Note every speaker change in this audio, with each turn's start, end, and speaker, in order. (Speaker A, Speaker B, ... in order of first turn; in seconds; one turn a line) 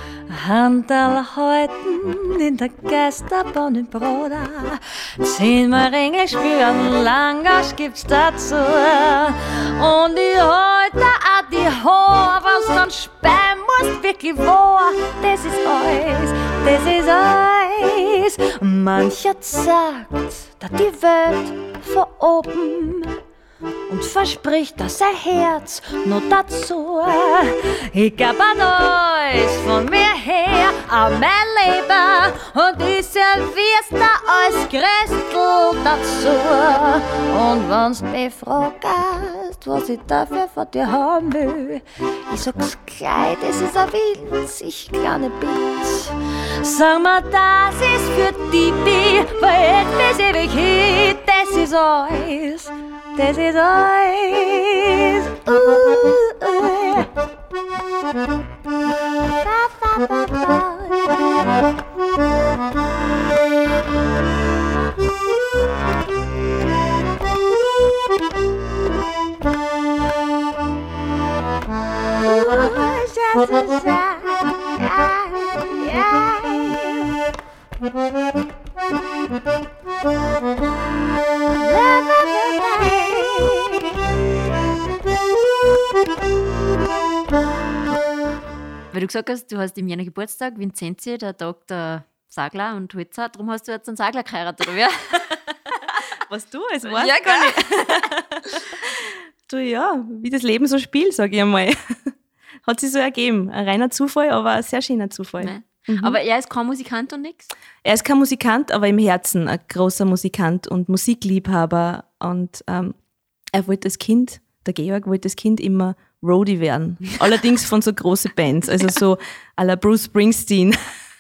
Speaker A: 0.3-23.2
Speaker A: 23.9-57.1
Speaker A: 59.4-61.2
Speaker A: 72.2-77.2
Speaker A: 81.5-84.0
Speaker B: 88.9-95.4
Speaker C: 96.2-102.1
Speaker B: 96.9-98.1
Speaker C: 102.7-106.2
Speaker B: 105.4-107.5
Speaker C: 107.8-113.0
Speaker C: 113.5-120.8